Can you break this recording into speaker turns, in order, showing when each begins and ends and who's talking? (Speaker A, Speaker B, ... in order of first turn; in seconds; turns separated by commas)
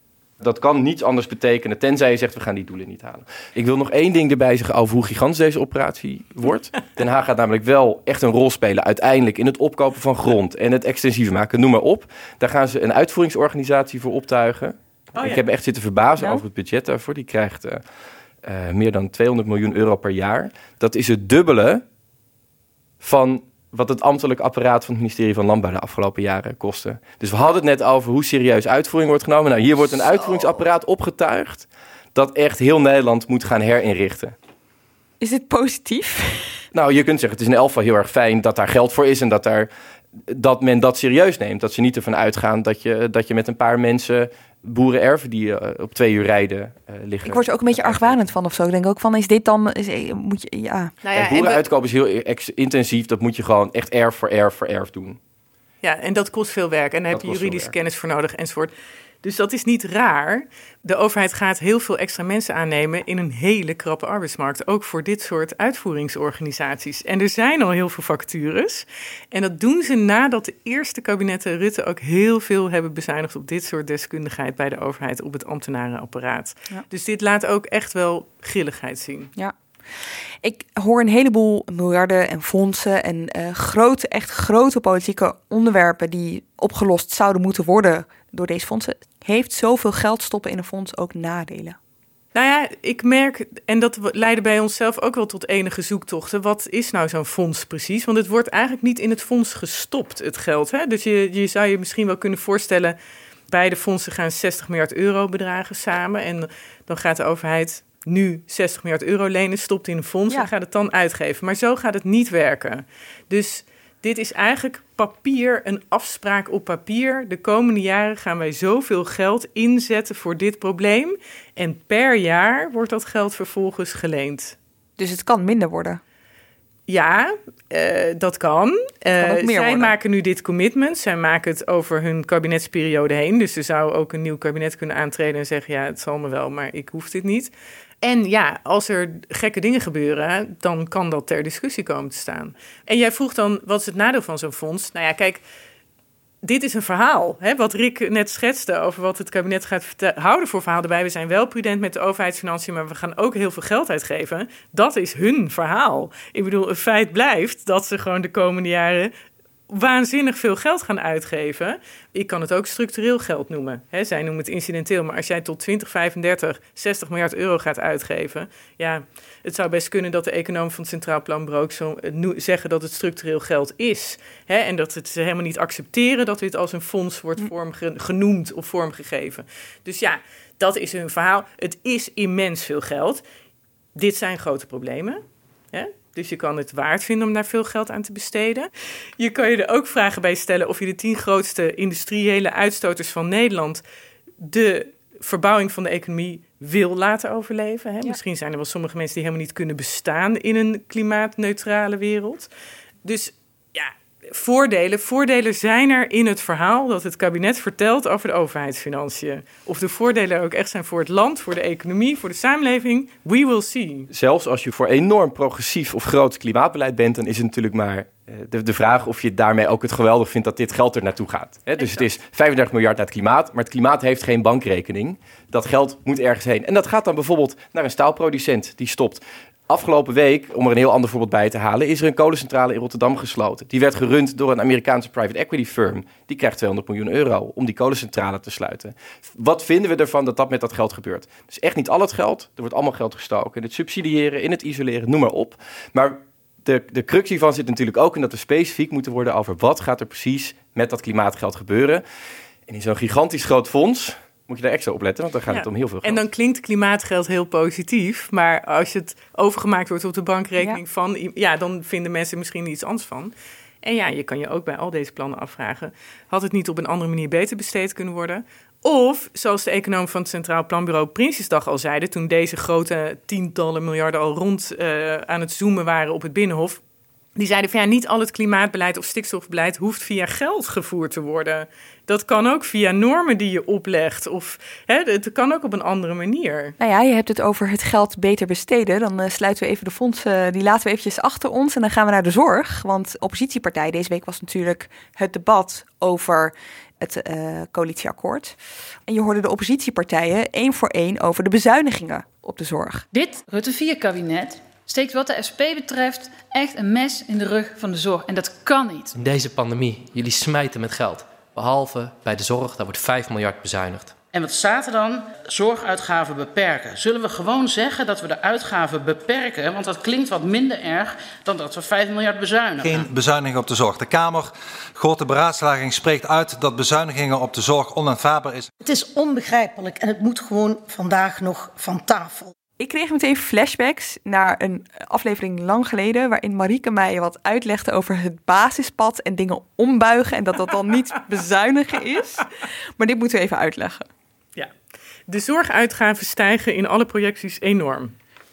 Speaker A: 0.4-17.8, Speaker B: 15.2-15.4, Speaker A: 18.4-21.8, Speaker A: 23.0-34.4, Speaker C: 30.0-30.6, Speaker C: 35.2-36.6, Speaker A: 36.7-39.7, Speaker A: 40.3-48.3, Speaker C: 47.2-50.9, Speaker B: 51.0-51.6, Speaker A: 51.1-55.2, Speaker B: 55.8-58.7, Speaker A: 57.1-57.7, Speaker B: 59.2-79.3, Speaker C: 80.4-91.8, Speaker B: 92.3-103.0, Speaker B: 103.5-124.5, Speaker C: 125.0-126.0, Speaker B: 126.9-145.4, Speaker C: 129.2-129.9, Speaker B: 146.4-159.1, Speaker B: 159.7-183.2, Speaker B: 183.9-193.8, Speaker B: 194.4-202.5, Speaker B: 203.0-214.1, Speaker A: 214.1-252.0, Speaker B: 221.8-222.1, Speaker A: 252.7-256.2, Speaker B: 255.5-276.8, Speaker B: 277.4-286.7, Speaker C: 286.8-303.1, Speaker D: 303.1-309.1, Speaker E: 309.1-314.2, Speaker F: 314.3-323.1, Speaker G: 322.8-328.7, Speaker H: 328.8-332.5, Speaker C: 332.8-342.5, Speaker C: 343.0-344.0, Speaker B: 345.3-348.1